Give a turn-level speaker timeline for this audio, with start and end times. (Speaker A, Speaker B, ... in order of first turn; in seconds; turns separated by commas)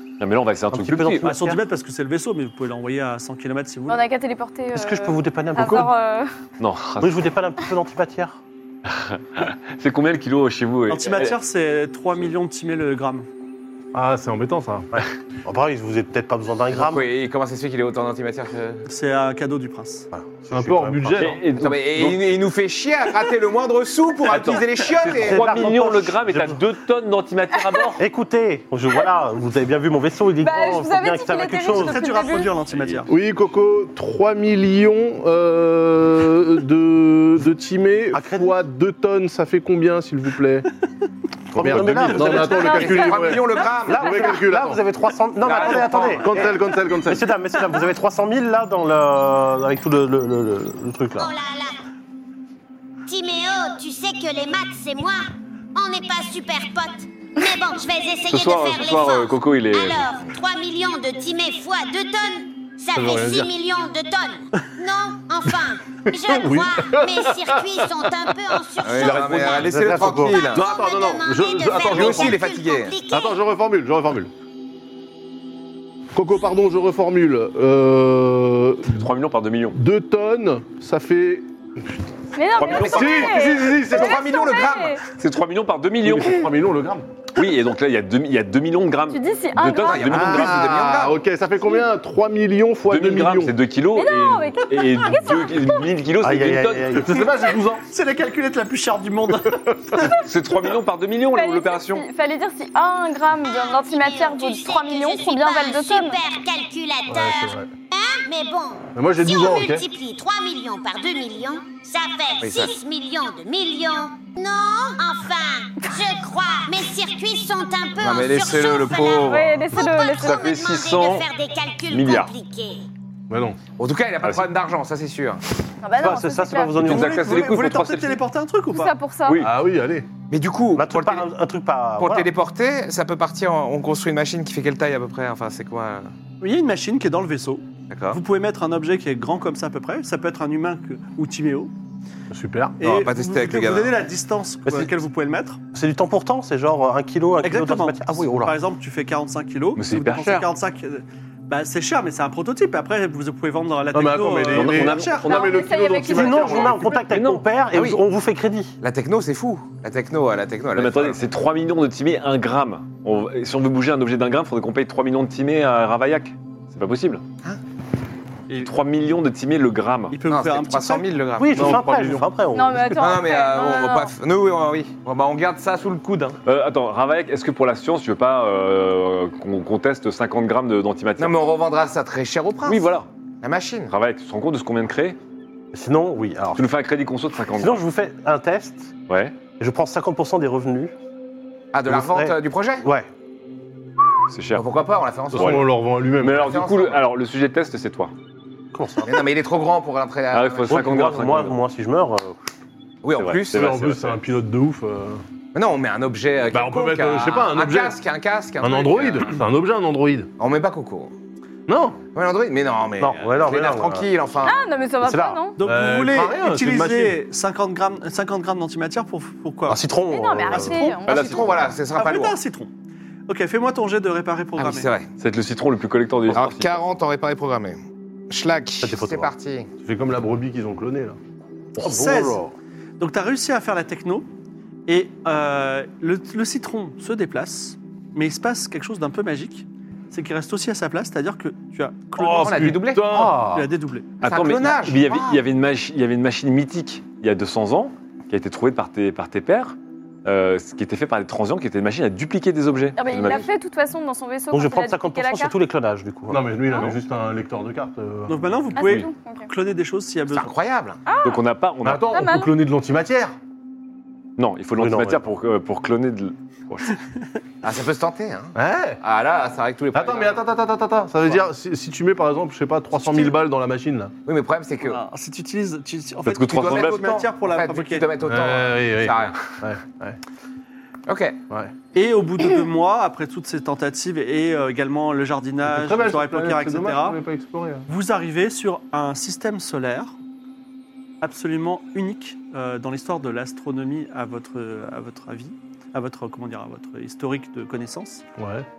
Speaker A: 0.2-1.3, Speaker B: 0.7-1.6, Speaker C: 1.2-4.0, Speaker D: 3.9-6.3, Speaker B: 4.7-5.9, Speaker A: 6.6-7.3, Speaker B: 7.0-8.4, Speaker A: 8.9-11.3, Speaker C: 10.9-13.3, Speaker E: 13.9-15.0, Speaker B: 14.9-17.1, Speaker F: 16.7-18.8, Speaker C: 18.9-20.1, Speaker B: 20.1-21.3, Speaker E: 20.5-21.4, Speaker A: 21.2-22.2, Speaker F: 21.6-25.5, Speaker A: 24.2-28.0, Speaker B: 25.1-26.6, Speaker B: 28.0-32.0, Speaker D: 30.4-32.5, Speaker C: 31.7-33.1, Speaker E: 33.1-40.7, Speaker B: 38.1-38.5, Speaker B: 41.5-42.5, Speaker E: 41.5-44.8, Speaker F: 42.1-44.4, Speaker D: 42.3-43.3, Speaker B: 43.8-51.3, Speaker F: 45.4-46.5, Speaker E: 45.6-47.3, Speaker G: 51.1-51.8, Speaker G: 53.1-73.4, Speaker A: 58.3-60.1, Speaker E: 62.9-63.5, Speaker E: 66.1-68.6, Speaker F: 68.8-70.7, Speaker A: 69.0-69.7, Speaker B: 69.6-70.4, Speaker E: 70.4-72.4, Speaker F: 71.8-73.0, Speaker E: 73.1-74.3, Speaker E: 76.1-79.1, Speaker A: 78.9-79.8, Speaker E: 79.7-82.0, Speaker D: 82.3-85.0, Speaker A: 82.5-83.3, Speaker F: 82.6-85.0, Speaker E: 82.7-84.2, Speaker A: 85.1-86.5, Speaker E: 86.0-87.0, Speaker A: 87.3-90.8, Speaker D: 89.1-90.2, Speaker F: 89.8-91.2, Speaker E: 90.1-93.5, Speaker A: 92.9-97.0, Speaker D: 93.9-95.9, Speaker B: 96.2-97.4, Speaker E: 96.9-97.8, Speaker C: 97.8-100.2, Speaker E: 99.5-100.0, Speaker A: 100.1-102.0, Speaker D: 101.3-106.2, Speaker G: 103.4-122.9, Speaker E: 107.1-107.7, Speaker E: 108.9-109.8, Speaker F: 112.4-112.7, Speaker F: 118.0-119.7, Speaker D: 119.2-120.5, Speaker A: 120.2-121.3, Speaker A: 121.9-122.3, Speaker E: 123.3-123.6, Speaker F: 123.8-125.4, Speaker A: 124.2-124.5, Speaker D: 125.8-126.8, Speaker B: 126.0-127.2, Speaker A: 126.8-128.2, Speaker C: 126.8-128.9, Speaker D: 128.7-129.4, Speaker E: 129.4-130.1, Speaker F: 130.3-131.3, Speaker B: 130.7-132.3, Speaker F: 132.0-136.1, Speaker C: 136.4-141.7, Speaker F: 137.9-138.2, Speaker E: 142.3-142.8, Speaker C: 142.8-145.6, Speaker F: 142.8-143.9, Speaker B: 144.7-144.9, Speaker B: 145.7-148.6, Speaker C: 147.4-155.4, Speaker A: 149.8-150.5, Speaker E: 153.9-156.9, Speaker A: 154.5-155.6, Speaker D: 155.2-157.1, Speaker B: 156.2-158.7, Speaker A: 156.9-157.4, Speaker F: 157.7-158.0, Speaker F: 158.8-161.2, Speaker A: 160.7-167.2, Speaker A: 168.6-170.2, Speaker C: 170.1-171.1, Speaker F: 170.2-171.8, Speaker B: 171.4-173.2, Speaker E: 171.5-172.3, Speaker D: 172.5-174.1, Speaker F: 172.9-176.4, Speaker A: 176.4-181.3, Speaker F: 181.2-182.9, Speaker A: 182.7-183.1, Speaker F: 183.4-183.9, Speaker A: 183.9-185.2, Speaker B: 185.7-186.7, Speaker A: 186.5-187.8, Speaker B: 187.5-188.9, Speaker A: 189.1-189.4, Speaker B: 189.6-190.9, Speaker F: 191.7-192.9, Speaker B: 191.9-193.1, Speaker A: 194.3-194.7, Speaker F: 194.5-195.7, Speaker A: 195.3-195.7, Speaker E: 195.3-196.6, Speaker A: 196.2-198.1, Speaker F: 196.3-197.0, Speaker B: 198.7-199.2, Speaker F: 199.0-201.1, Speaker A: 200.3-201.6, Speaker B: 200.7-202.3, Speaker F: 203.0-203.8, Speaker A: 203.1-204.2, Speaker E: 203.5-205.2, Speaker F: 205.5-209.4, Speaker E: 206.5-208.0, Speaker E: 208.6-210.3, Speaker F: 210.4-211.1, Speaker E: 211.7-212.0, Speaker F: 212.1-214.6, Speaker B: 213.0-214.1, Speaker D: 214.4-215.6, Speaker B: 215.0-215.4, Speaker C: 215.6-219.8, Speaker E: 215.6-217.2, Speaker B: 219.7-220.9, Speaker D: 220.1-221.5, Speaker C: 220.5-221.0, Speaker A: 221.1-221.7, Speaker F: 221.1-222.3, Speaker C: 221.9-222.7, Speaker C: 223.3-224.9, Speaker F: 224.6-225.1, Speaker A: 225.2-226.9, Speaker F: 226.3-229.7, Speaker B: 228.8-229.3, Speaker E: 229.8-231.2, Speaker C: 231.8-232.4, Speaker B: 231.8-232.5, Speaker C: 233.0-234.3, Speaker C: 234.9-242.8, Speaker E: 242.2-243.7, Speaker F: 242.3-243.3, Speaker C: 243.5-244.1, Speaker A: 244.2-253.5, Speaker F: 244.2-245.2, Speaker D: 252.9-255.5, Speaker B: 254.5-256.5, Speaker E: 256.3-258.5, Speaker C: 258.3-260.5, Speaker D: 258.8-259.5, Speaker A: 258.8-259.1, Speaker F: 260.3-261.0, Speaker D: 261.1-261.4, Speaker A: 261.2-262.2, Speaker E: 261.8-263.3, Speaker D: 262.1-262.5, Speaker A: 264.4-267.0, Speaker B: 264.8-265.2, Speaker F: 267.6-270.4, Speaker E: 268.5-269.0, Speaker E: 269.9-274.1, Speaker F: 274.2-275.0, Speaker C: 274.8-278.1, Speaker A: 276.2-277.2, Speaker F: 276.6-279.5, Speaker E: 278.2-280.2, Speaker F: 281.1-281.4, Speaker C: 281.9-287.2, Speaker E: 285.6-287.9, Speaker C: 287.9-290.1, Speaker C: 291.2-298.2, Speaker E: 298.4-298.6